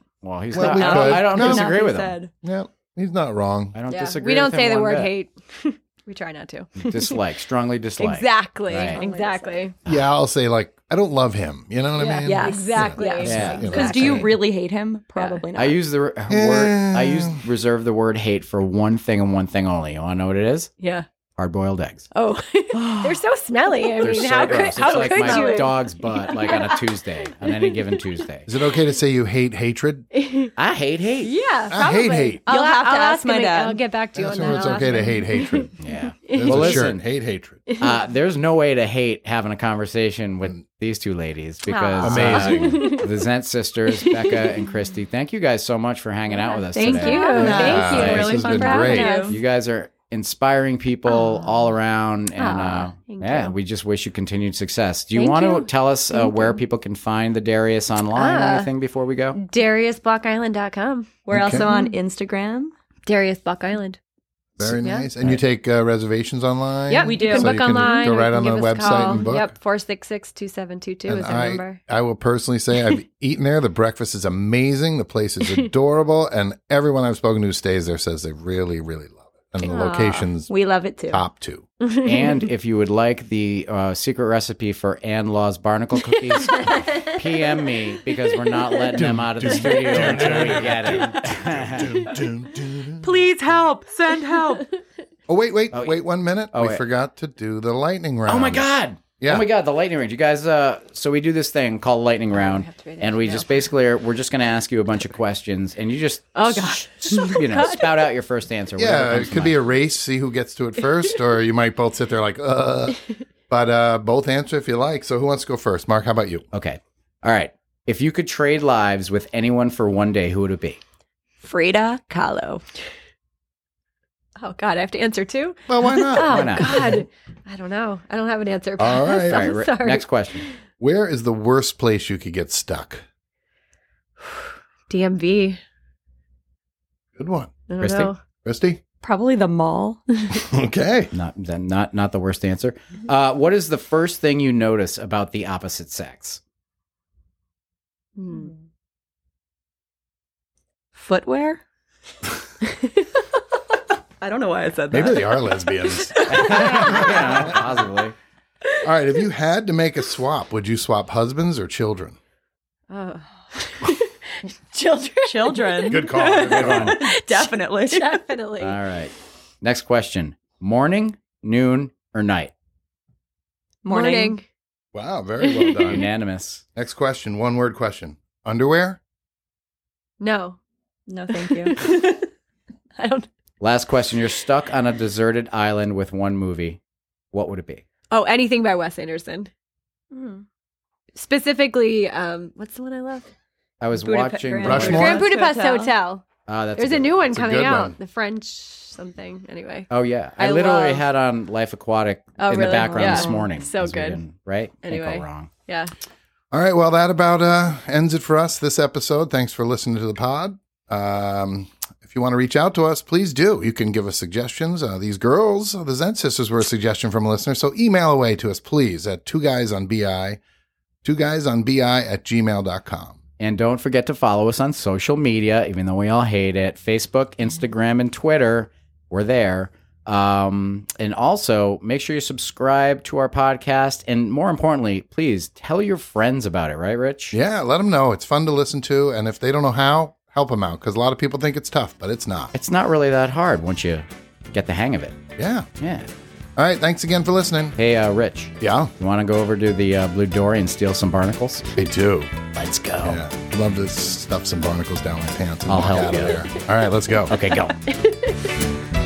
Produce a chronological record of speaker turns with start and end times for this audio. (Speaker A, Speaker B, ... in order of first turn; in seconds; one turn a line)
Speaker A: 0.2-2.1
Speaker B: 0.5-1.7
Speaker C: 0.6-2.3
Speaker B: 2.4-3.8
Speaker A: 3.7-5.1
Speaker D: 3.9-7.2
Speaker A: 6.8-9.0
Speaker D: 8.0-9.8
Speaker C: 8.8-9.6
Speaker B: 9.8-14.3
Speaker D: 12.0-14.4
Speaker C: 12.2-15.8
Speaker A: 13.2-13.8
Speaker D: 15.2-15.4
Speaker A: 15.5-20.7
Speaker B: 16.3-17.4
Speaker D: 20.8-21.1
Speaker A: 21.4-22.1
Speaker D: 22.1-27.8
Speaker C: 22.7-23.2
Speaker A: 24.0-28.5
Speaker C: 24.9-25.7
Speaker B: 28.5-30.1
Speaker D: 30.1-30.5
Speaker A: 30.6-31.4
Speaker D: 31.2-35.7
Speaker B: 31.7-32.4
Speaker C: 32.5-33.8
Speaker B: 34.1-35.7
Speaker A: 35.8-37.0
Speaker D: 36.3-36.9
Speaker B: 36.3-37.6
Speaker D: 37.7-38.0
Speaker A: 37.8-48.5
Speaker D: 41.6-43.1
Speaker B: 42.0-43.0
Speaker D: 43.9-44.7
Speaker D: 46.3-49.4
Speaker C: 46.7-49.4
Speaker B: 47.4-49.2
Speaker A: 49.3-59.4
Speaker D: 51.1-51.6
Speaker D: 52.4-53.5
Speaker D: 55.1-56.6
Speaker D: 58.1-58.7
Speaker D: 59.4-61.1
Speaker C: 61.2-62.7
Speaker B: 61.3-61.7
Speaker D: 61.6-62.0
Speaker D: 63.0-64.0
Speaker B: 64.6-69.5
Speaker D: 64.8-65.1
Speaker D: 66.9-71.8
Speaker C: 67.0-68.1
Speaker B: 71.1-80.5
Speaker D: 79.6-80.3
Speaker C: 80.5-81.2
Speaker B: 81.1-81.6
Speaker D: 81.8-82.5
Speaker A: 82.0-92.0
Speaker D: 86.3-87.1
Speaker B: 89.0-93.1
Speaker C: 93.0-94.7
Speaker B: 95.3-98.7
Speaker A: 96.5-96.8
Speaker A: 98.3-109.7
Speaker B: 99.2-99.5
Speaker D: 102.3-103.5
Speaker D: 106.3-108.0
Speaker B: 108.8-116.4
Speaker A: 116.5-120.8
Speaker C: 121.4-122.6
Speaker D: 124.4-130.5
Speaker B: 125.7-126.6
Speaker A: 126.2-127.0
Speaker B: 128.8-129.5
Speaker A: 129.2-130.5
Speaker B: 130.8-133.0
Speaker D: 134.9-135.6
Speaker B: 137.2-137.5
Speaker D: 137.7-138.2
Speaker A: 137.8-138.1
Speaker B: 138.4-138.8
Speaker C: 139.0-140.2
Speaker B: 140.5-141.1
Speaker A: 141.1-146.4
Speaker D: 148.2-148.5
Speaker C: 150.9-151.6
Speaker C: 154.2-155.5
Speaker B: 154.9-157.4
Speaker A: 156.3-158.1
Speaker D: 156.4-157.0
Speaker B: 158.8-162.2
Speaker D: 162.9-168.8
Speaker C: 165.2-168.2
Speaker B: 165.8-167.0
Speaker A: 166.4-167.0
Speaker A: 168.6-172.5
Speaker C: 173.8-174.4
Speaker D: 173.9-174.4
Speaker B: 174.9-176.1
Speaker D: 175.4-175.7
Speaker A: 175.9-176.6
Speaker B: 176.7-179.0
Speaker D: 180.2-180.6
Speaker C: 181.1-181.9
Speaker D: 181.3-182.3
Speaker D: 182.9-183.3
Speaker A: 183.6-186.8
Speaker A: 187.3-187.8
Speaker D: 188.1-189.5
Speaker C: 190.1-190.4
Speaker D: 191.1-193.3
Speaker A: 193.8-195.2
Speaker C: 194.0-195.9
Speaker B: 194.6-195.2
Speaker D: 194.8-196.2
Speaker A: 196.4-197.2
Speaker D: 196.8-199.9
Speaker B: 197.3-197.9
Speaker A: 199.9-205.5
Speaker C: 200.4-201.0
Speaker D: 200.4-200.8
Speaker D: 202.4-204.2
Speaker C: 202.5-203.4
Speaker D: 204.8-205.9
Speaker B: 206.5-220.4
Speaker B: 221.0-223.2
Speaker A: 223.4-237.3
Speaker B: 237.3-242.5
Speaker A: 242.5-245.2
Speaker B: 245.4-245.7
Speaker A: 245.8-246.1
Speaker B: 246.6-247.8
Speaker A: 247.8-251.8
Speaker B: 248.6-248.9
Speaker B: 251.8-252.3
Speaker A: 252.5-253.2
Speaker B: 253.0-257.3
Speaker A: 255.7-256.5
Speaker A: 257.3-257.8